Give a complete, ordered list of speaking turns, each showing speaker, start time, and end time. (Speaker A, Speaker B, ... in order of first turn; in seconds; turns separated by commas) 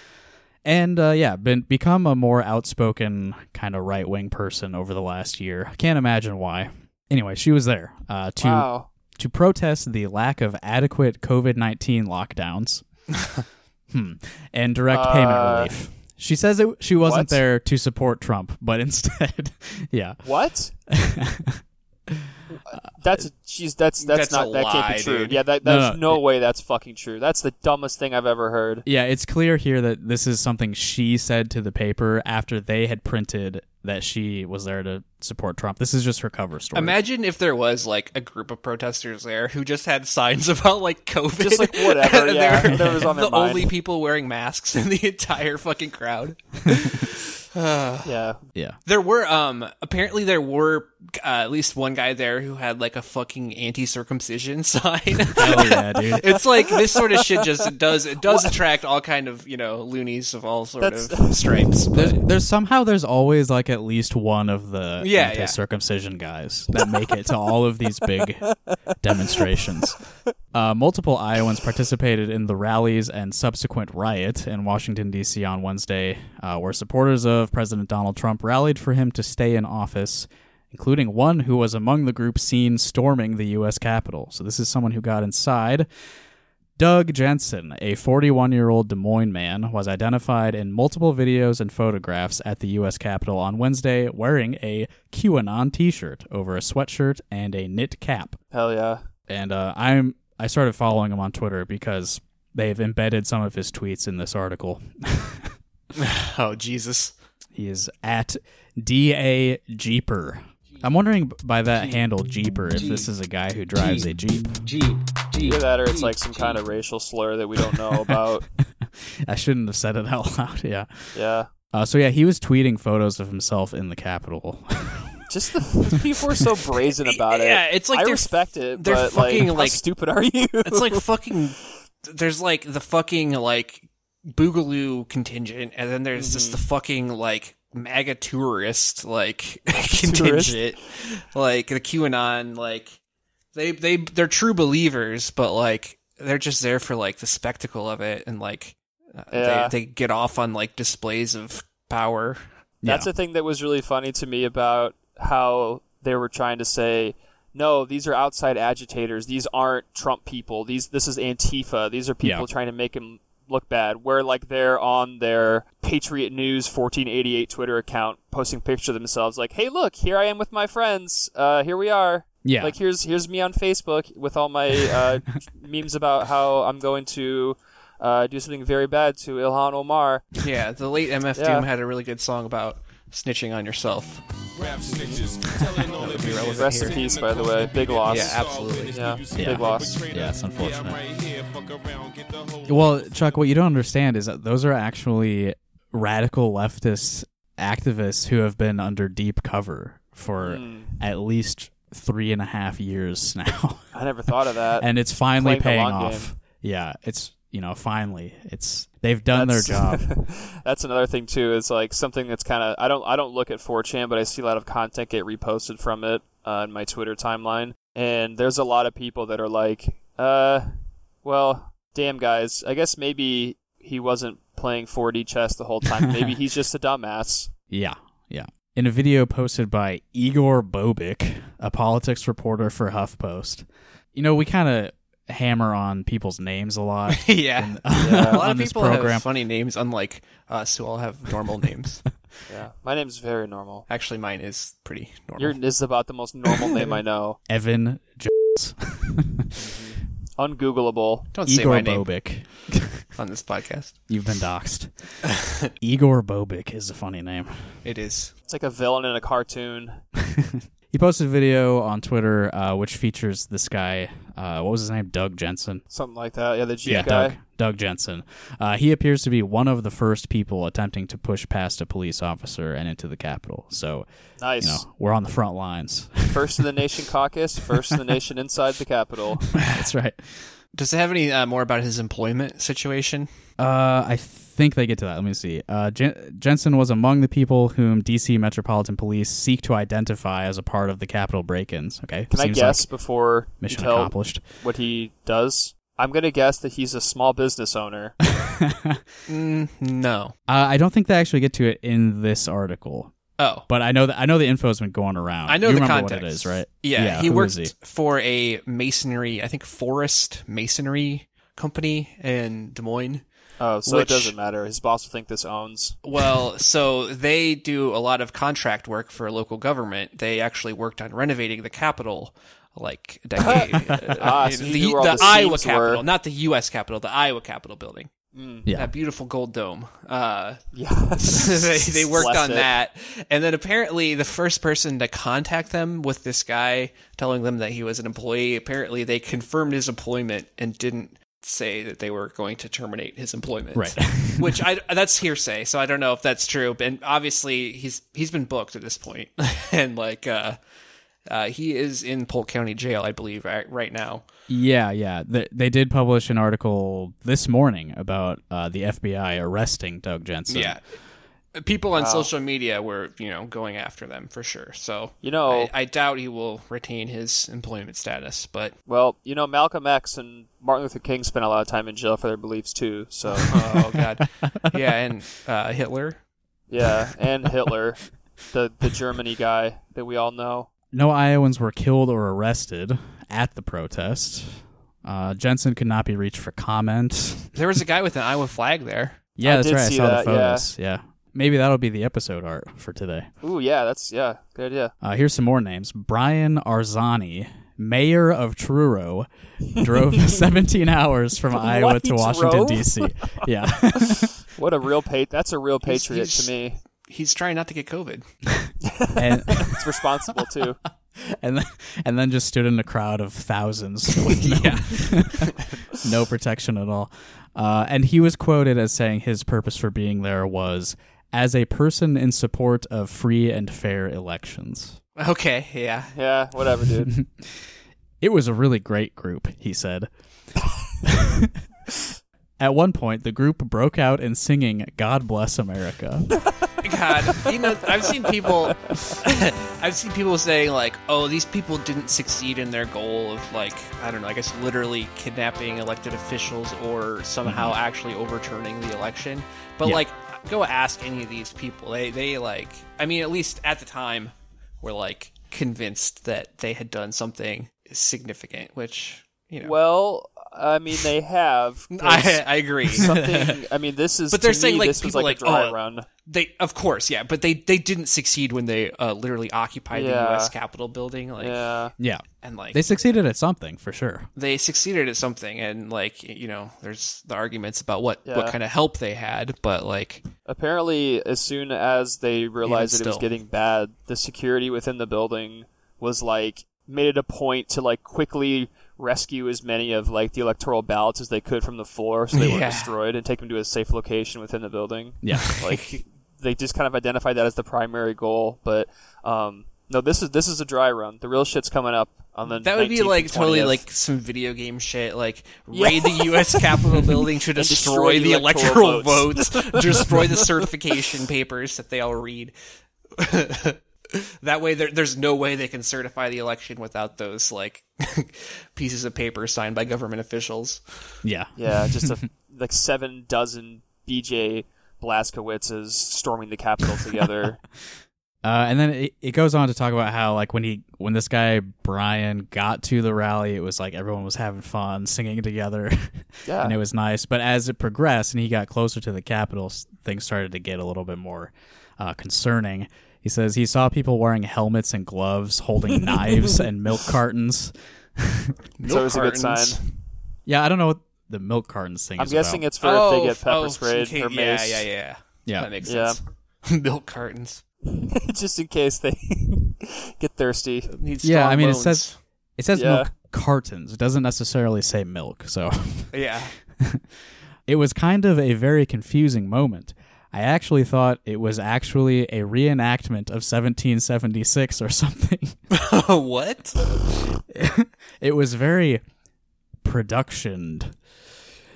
Speaker A: 0.6-12.8, Speaker B: 8.4-8.9, Speaker A: 13.9-20.2, Speaker B: 14.9-15.7, Speaker B: 17.0-17.4, Speaker B: 20.2-20.7, Speaker A: 20.9-22.3, Speaker B: 22.6-28.8, Speaker C: 24.0-25.4, Speaker A: 25.6-26.2, Speaker A: 28.9-37.0, Speaker C: 36.7-48.1, Speaker B: 41.4-43.7, Speaker B: 48.0-48.4, Speaker C: 48.9-62.2, Speaker A: 55.3-56.4, Speaker B: 58.3-58.5, Speaker B: 60.8-61.7, Speaker A: 61.9-70.0, Speaker C: 65.0-65.6, Speaker A: 70.5-85.9, Speaker A: 86.8-98.4, Speaker B: 98.5-99.0, Speaker A: 99.3-105.5, Speaker C: 105.9-107.1, Speaker A: 107.5-114.7, Speaker B: 115.4-118.5, Speaker A: 118.8-121.1, Speaker B: 121.1-121.5, Speaker A: 121.7-125.2, Speaker B: 125.3-131.0, Speaker C: 127.1-129.8, Speaker C: 130.6-142.9, Speaker B: 136.2-136.6, Speaker B: 139.8-140.6, Speaker C: 143.5-152.4, Speaker B: 149.3-149.7, Speaker A: 152.8-153.1, Speaker B: 152.8-180.2, Speaker A: 172.4-172.7, Speaker C: 180.4-184.2, Speaker B: 181.3-181.7, Speaker D: 184.6-193.5, Speaker B: 184.9-185.2, Speaker C: 185.9-187.0, Speaker B: 186.4-188.4, Speaker C: 188.1-188.9, Speaker B: 188.9-190.0, Speaker A: 189.3-191.0, Speaker A: 192.7-203.9, Speaker B: 200.4-200.9, Speaker B: 203.9-206.3, Speaker A: 204.8-210.1, Speaker B: 209.3-220.7, Speaker B: 221.2-227.5, Speaker A: 227.7-239.2, Speaker C: 237.1-242.0, Speaker B: 238.0-238.4, Speaker B: 242.5-243.8, Speaker C: 243.9-245.6, Speaker B: 245.4-247.4, Speaker A: 247.5-249.4, Speaker B: 249.6-251.3, Speaker C: 251.3-252.1, Speaker A: 251.5-253.0, Speaker C: 253.2-253.9, Speaker A: 254.1-254.9, Speaker C: 255.2-255.7, Speaker A: 255.8-257.8, Speaker C: 257.8-258.3, Speaker B: 258.5-260.0, Speaker A: 260.2-265.8, Speaker B: 265.9-267.4, Speaker A: 266.8-274.1, Speaker B: 274.4-274.8, Speaker A: 274.6-276.5, Speaker B: 276.3-279.4, Speaker A: 279.5-280.5, Speaker C: 280.7-283.3, Speaker A: 283.6-292.9, Speaker B: 292.3-298.1, Speaker A: 293.6-294.4, Speaker A: 298.3-299.0, Speaker C: 299.3-300.3, Speaker A: 300.5-303.1, Speaker C: 303.4-303.6, Speaker A: 303.7-307.7, Speaker C: 305.5-313.2, Speaker B: 313.6-316.0, Speaker C: 313.9-314.3, Speaker C: 316.0-328.1, Speaker B: 323.4-326.0, Speaker A: 323.9-324.3, Speaker B: 328.3-328.6, Speaker C: 328.7-330.6, Speaker B: 330.7-332.7, Speaker C: 331.2-350.6, Speaker A: 343.7-344.6, Speaker C: 351.3-354.2, Speaker A: 354.5-360.8, Speaker C: 360.5-360.8, Speaker C: 361.5-368.7, Speaker B: 361.9-362.3, Speaker B: 365.2-365.7, Speaker B: 368.9-373.5, Speaker C: 373.4-376.2, Speaker B: 376.7-380.7, Speaker A: 380.9-387.5, Speaker C: 387.5-389.2, Speaker A: 389.4-393.3, Speaker B: 389.4-390.7, Speaker B: 393.4-394.9, Speaker A: 395.0-404.3, Speaker B: 401.5-406.8, Speaker C: 405.8-406.5, Speaker C: 407.1-408.2, Speaker B: 408.8-410.8, Speaker A: 409.1-409.8, Speaker A: 411.1-425.0, Speaker C: 414.3-415.7, Speaker C: 425.2-426.1, Speaker B: 426.1-427.1, Speaker A: 427.1-427.6, Speaker A: 428.2-430.1, Speaker A: 431.0-431.5, Speaker A: 432.6-436.3, Speaker C: 436.8-459.8, Speaker A: 447.4-447.8, Speaker B: 459.6-466.1, Speaker C: 461.9-463.2, Speaker C: 464.3-471.6, Speaker B: 469.9-470.5, Speaker B: 471.4-471.9, Speaker A: 472.0-474.3, Speaker C: 472.4-472.9, Speaker C: 474.4-480.2, Speaker B: 478.2-478.6, Speaker B: 480.4-503.8, Speaker C: 482.6-483.2, Speaker C: 492.3-492.9, Speaker A: 495.2-495.5, Speaker C: 502.5-512.5, Speaker B: 505.7-510.4, Speaker C: 513.1-521.0, Speaker A: 521.2-522.1, Speaker B: 521.5-527.6, Speaker A: 528.4-548.5, Speaker B: 536.5-536.8, Speaker C: 548.8-549.9, Speaker B: 548.9-549.8, Speaker A: 550.5-552.6, Speaker B: 552.2-554.9, Speaker C: 552.8-557.6, Speaker B: 555.8-556.2, Speaker B: 557.8-560.9, Speaker C: 560.9-562.1, Speaker A: 561.2-562.0, Speaker A: 562.6-566.2, Speaker B: 562.7-563.1, Speaker C: 566.1-566.5, Speaker A: 567.6-575.6, Speaker C: 575.7-577.1, Speaker A: 577.5-579.0, Speaker A: 579.8-581.0